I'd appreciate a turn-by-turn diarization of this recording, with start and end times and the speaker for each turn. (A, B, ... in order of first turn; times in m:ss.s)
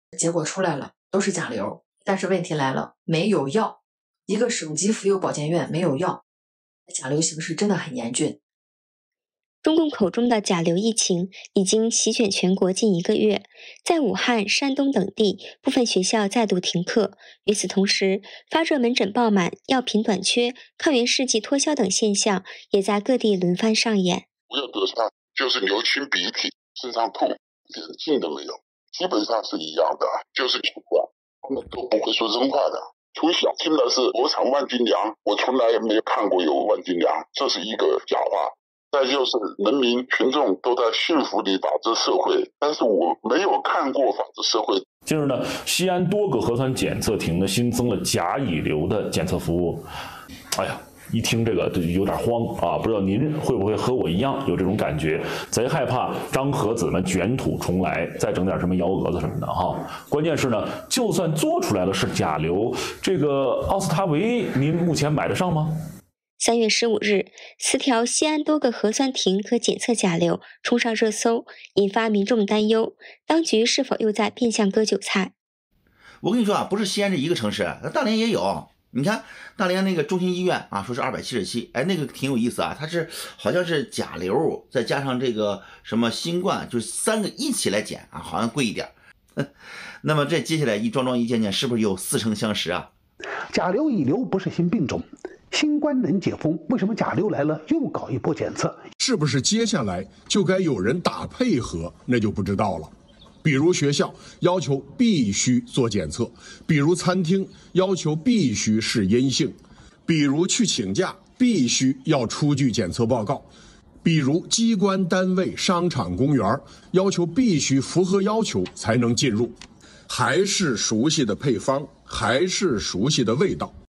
0:00.1-0:06.2 A
0:06.9-0:08.4 A
0:09.6-0:24.3 B
0:24.5-0:44.8 C
0:45.0-0:49.8 D
0:50.6-1:05.7 D
1:06.4-1:15.3 B
1:16.2-1:32.9 E
1:33.5-1:38.8 F
1:39.0-1:42.9 G
1:43.4-1:53.5 G
1:54.0-1:59.6 G
2:00.1-2:03.7 G